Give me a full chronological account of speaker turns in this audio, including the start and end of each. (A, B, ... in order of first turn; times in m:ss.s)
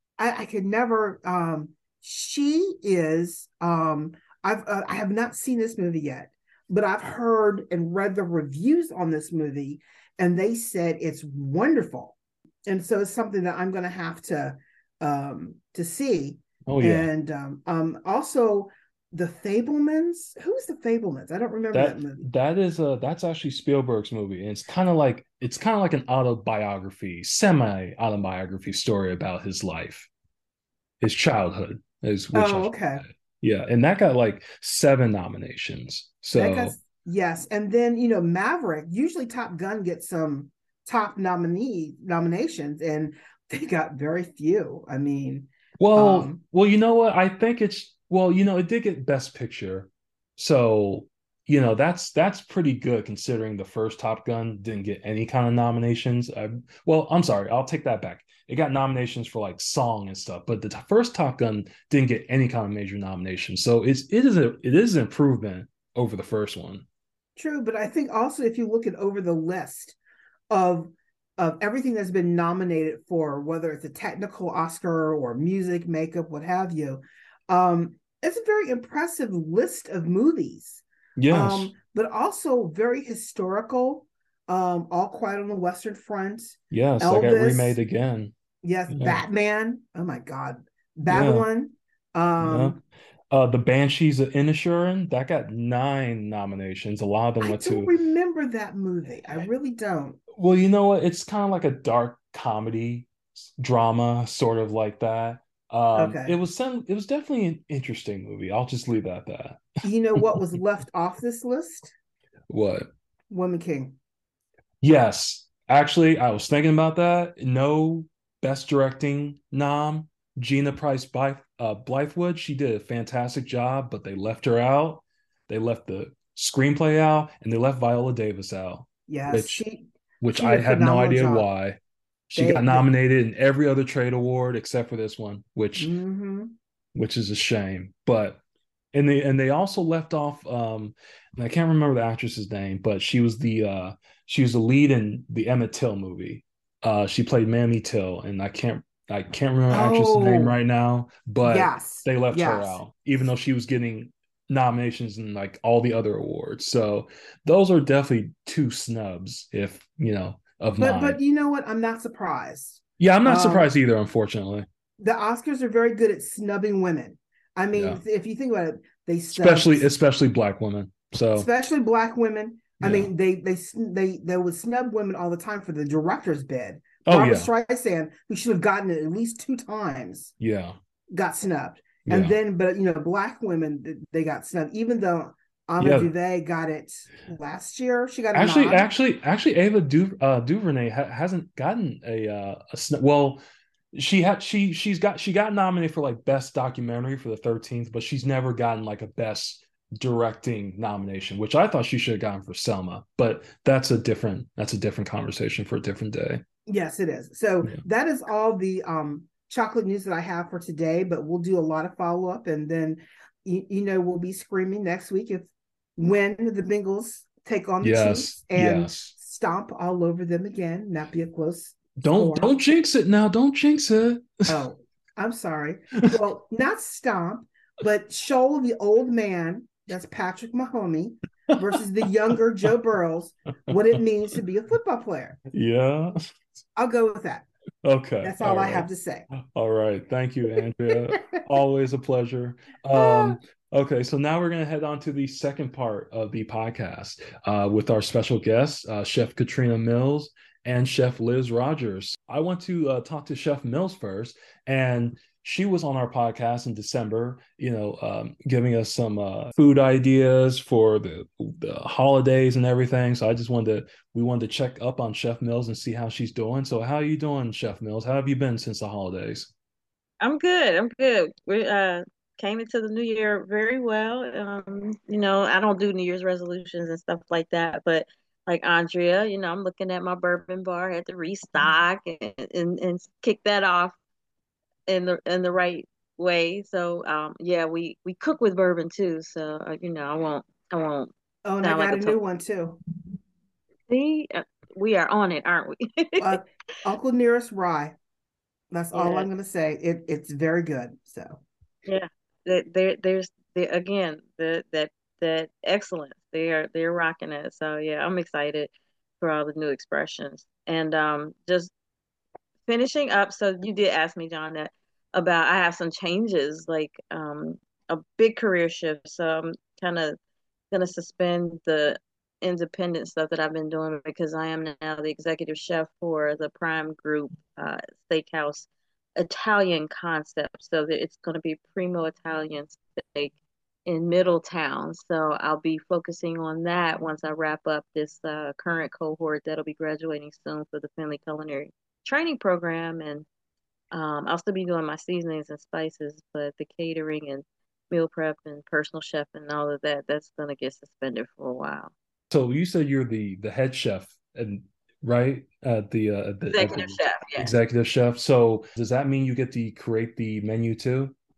0:00.2-0:22.3 A
0:16.7-0:17.1 B
0:21.7-0:30.1 B
0:31.0-0:36.8 B
0:32.3-0:33.0 A
0:36.3-0:46.4 A
0:45.8-1:06.9 B
1:07.4-1:10.0 A
1:10.5-1:27.8 A
1:21.2-1:21.7 B
1:26.7-1:28.3 B
1:28.6-1:32.8 A
1:28.9-1:29.2 B
1:31.1-1:31.5 B
1:32.4-1:32.8 B
1:33.3-1:37.9 B
1:37.4-1:40.2 A
1:40.3-1:50.2 B
1:46.0-1:46.4 A
1:49.8-1:51.9 A
1:52.5-1:52.9 B
1:53.3-1:54.0 A
1:54.8-2:09.6 B
2:09.1-2:11.4 A
2:10.2-2:15.9 B
2:12.4-2:12.9 A
2:15.8-2:16.5 A
2:17.0-2:18.4 B
2:18.9-2:41.2 B
2:29.7-2:30.6 A
2:31.4-2:32.8 A
2:40.8-2:43.7 A
2:43.0-2:44.7 B
2:45.0-2:49.8 A
2:47.7-2:48.0 B
2:49.3-2:51.5 B
2:51.4-3:00.3 A
2:52.8-2:53.1 B
2:57.0-2:57.5 B
3:00.4-3:00.8 B
3:01.1-3:08.9 A
3:02.1-3:02.4 B
3:05.8-3:06.1 B
3:08.3-3:13.4 B
3:13.9-3:26.4 B
3:26.7-3:42.5 A
3:37.8-3:39.1 B
3:42.0-3:44.6 B
3:44.5-3:55.4 A
3:55.5-3:56.2 B
3:56.8-3:57.5 A
3:57.8-4:29.5 B
3:58.2-3:59.3 A
4:03.0-4:03.4 A
4:30.2-4:44.0 C
4:44.9-4:52.2 C
4:51.4-4:52.8 A
4:53.9-4:56.4 C
4:56.2-4:58.0 A
4:58.7-5:01.4 A
4:58.9-4:59.3 C
5:01.9-5:11.7 C
5:12.7-5:20.2 C
5:20.7-5:33.4 C
5:33.9-5:43.3 C
5:43.9-5:51.9 C
5:52.3-6:01.2 B
5:56.5-5:57.5 C